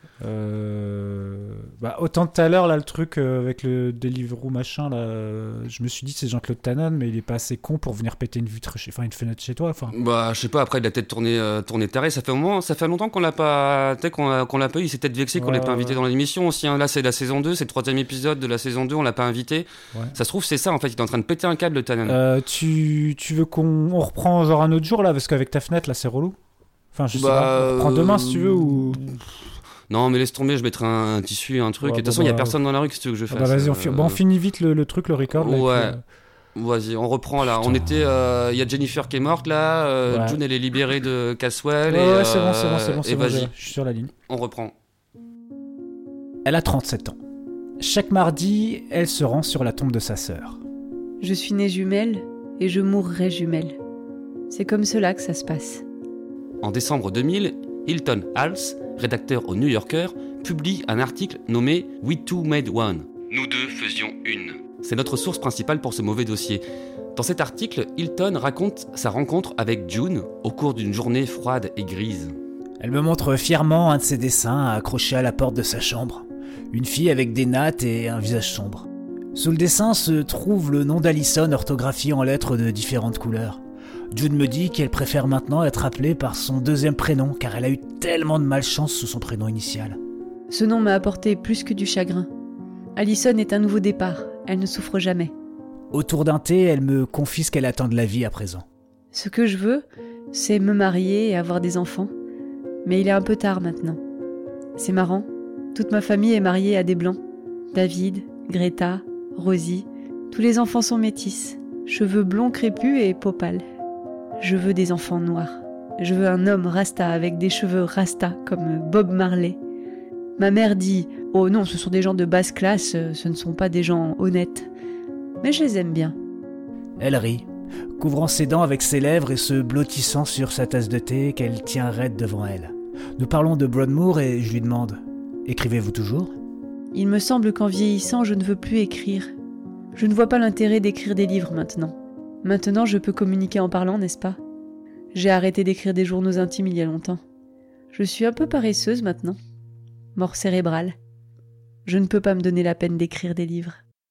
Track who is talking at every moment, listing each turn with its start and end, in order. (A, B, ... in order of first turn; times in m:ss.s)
0:00.2-0:09.9 A
0:09.9-0:22.2 B
0:15.3-0:16.0 A
0:22.0-0:26.4 A
0:26.9-0:29.2 A
0:27.1-0:29.0 B
0:29.9-0:34.2 B
0:31.8-0:32.6 A
0:33.3-0:36.0 A
0:35.3-0:36.0 B
0:36.5-0:43.5 B
0:37.4-0:37.9 A
0:40.1-0:40.4 A
0:41.9-0:44.1 A
0:44.3-0:44.7 B
0:46.4-0:47.2 A
0:47.8-0:50.6 A
0:51.2-0:53.7 C
0:54.5-0:55.8 C
0:56.6-1:06.6 B
1:07.1-1:12.3 B
1:12.8-1:23.6 A
1:24.1-1:30.0 A
1:30.5-1:32.3 C
1:33.0-1:35.3 C
1:35.9-1:38.6 A
1:39.1-1:42.1 C
1:42.8-1:44.0 C
1:44.8-1:47.2 C
1:47.7-1:53.6 C
1:54.4-1:59.6 C
2:00.4-2:04.7 C
2:05.4-2:06.2 C
2:07.0-2:07.4 A
2:08.0-2:16.3 A
2:16.9-2:19.3 C
2:19.9-2:24.4 C
2:25.1-2:27.2 C
2:27.9-2:29.4 C
2:30.2-2:31.0 C
2:31.8-2:33.8 C